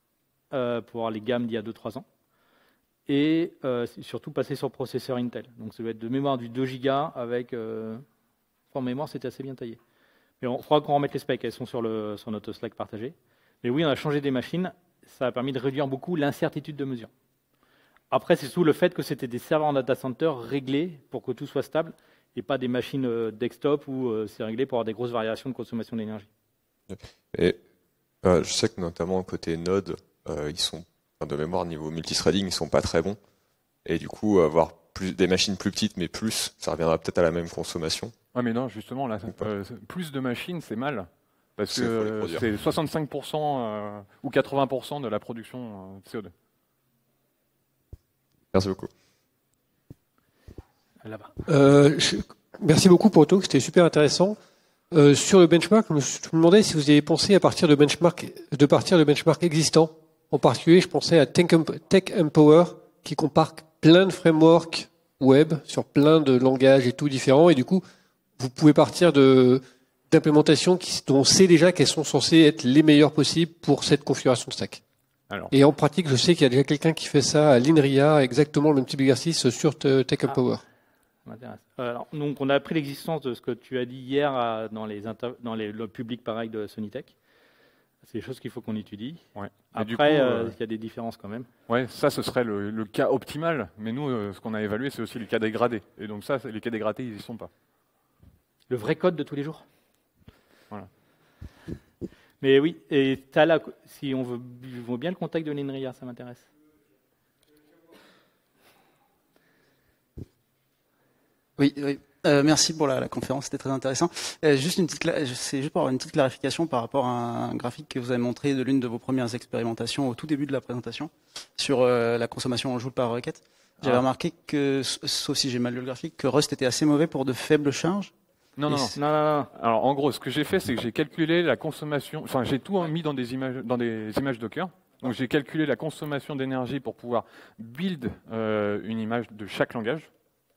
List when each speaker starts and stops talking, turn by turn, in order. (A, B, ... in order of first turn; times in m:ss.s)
0:00.5-0:02.1 A
0:03.1-0:08.0 A
0:08.7-0:09.8 A
0:10.4-0:17.1 A
0:18.1-0:26.3 A
0:26.9-0:27.6 B
0:28.2-0:33.2 B
0:33.8-0:38.1 B
0:38.3-0:46.3 C
0:41.7-0:42.4 B
0:48.5-0:48.9 B
0:51.0-0:51.3 A
0:51.5-0:54.4 D
0:54.9-1:07.8 D
1:08.4-1:14.8 D
1:15.5-1:20.6 D
1:21.3-1:27.1 A
1:28.0-1:31.5 A
1:29.4-1:30.6 C
1:31.7-1:37.5 C
1:38.7-1:39.6 A
1:42.4-1:46.5 A
1:51.6-2:08.1 E
2:08.6-2:09.0 C
2:09.0-2:09.5 A
2:09.5-2:20.1 C